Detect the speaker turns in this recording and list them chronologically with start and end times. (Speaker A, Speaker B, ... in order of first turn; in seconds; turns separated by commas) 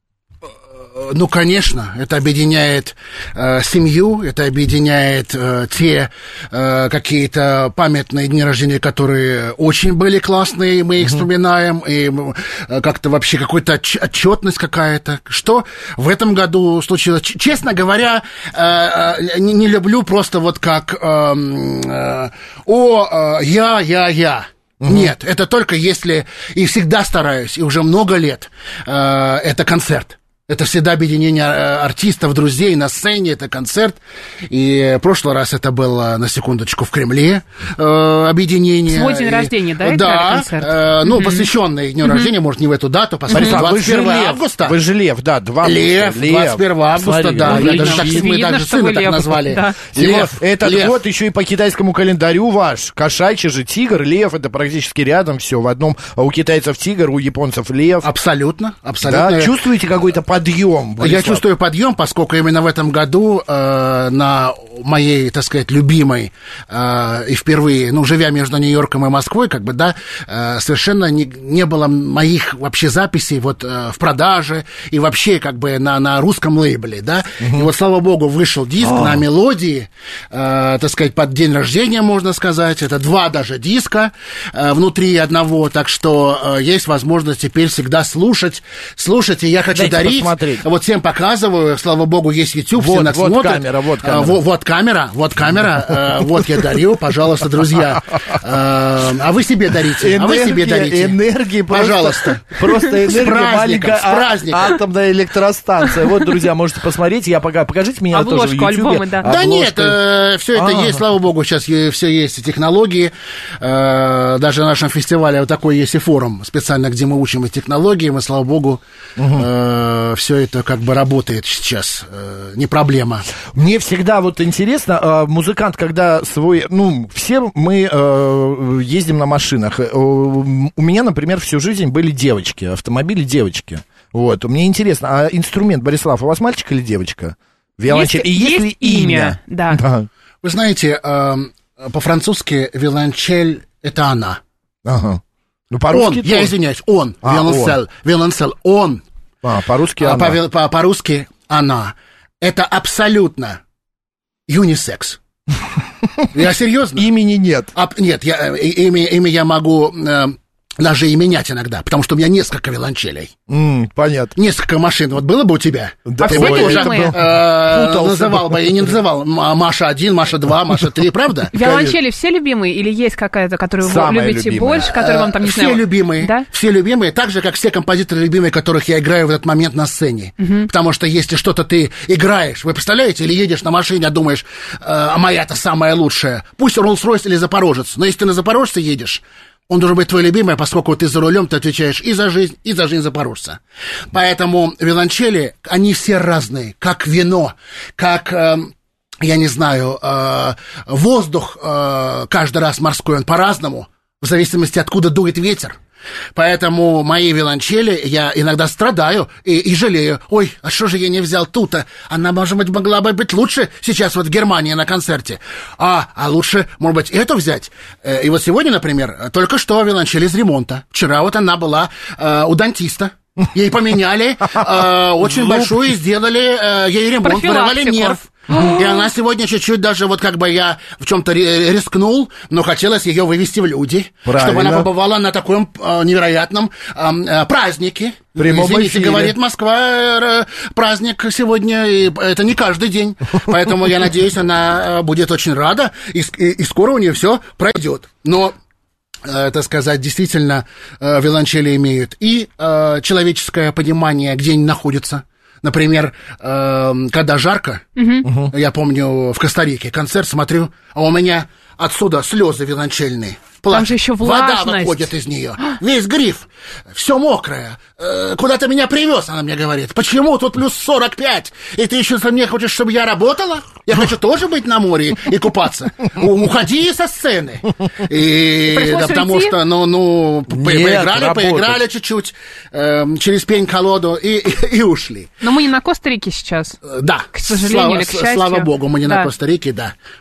Speaker A: 0.9-44.8, Speaker B: 24.8-25.1, Speaker C: 38.9-41.5, Speaker C: 42.0-42.3, Speaker C: 43.3-43.6, Speaker B: 43.3-48.3, Speaker A: 45.6-51.0, Speaker C: 47.5-49.8, Speaker B: 49.9-58.1, Speaker A: 58.0-59.6, Speaker B: 59.0-61.4, Speaker A: 61.0-101.2, Speaker B: 77.4-77.7, Speaker B: 78.8-79.2, Speaker B: 89.7-90.6, Speaker B: 92.8-94.4, Speaker B: 100.0-110.0, Speaker A: 101.7-104.8, Speaker C: 108.1-109.3, Speaker A: 109.2-123.3, Speaker B: 110.5-111.0, Speaker B: 119.2-119.5, Speaker B: 123.5-140.1, Speaker C: 137.9-139.8, Speaker A: 140.4-144.4, Speaker B: 144.8-146.5, Speaker A: 145.9-149.0, Speaker B: 147.2-147.8, Speaker B: 149.4-150.4, Speaker A: 150.0-153.6, Speaker A: 154.5-155.2, Speaker A: 156.3-157.1, Speaker B: 157.0-157.7, Speaker A: 157.7-163.3, Speaker B: 163.5-164.3, Speaker A: 164.4-171.9, Speaker B: 166.1-168.9, Speaker C: 166.2-167.2, Speaker C: 171.5-176.4, Speaker B: 171.6-171.9, Speaker B: 173.8-174.9, Speaker A: 174.8-193.6, Speaker A: 194.1-205.8, Speaker A: 206.3-248.6, Speaker C: 227.2-229.0, Speaker B: 234.3-234.9, Speaker B: 238.4-239.3, Speaker A: 249.2-285.3, Speaker C: 258.0-258.3, Speaker B: 258.2-258.5, Speaker C: 263.7-265.1, Speaker C: 278.7-279.6, Speaker B: 280.5-281.8, Speaker C: 285.4-286.8, Speaker A: 286.8-289.9, Speaker C: 287.4-289.3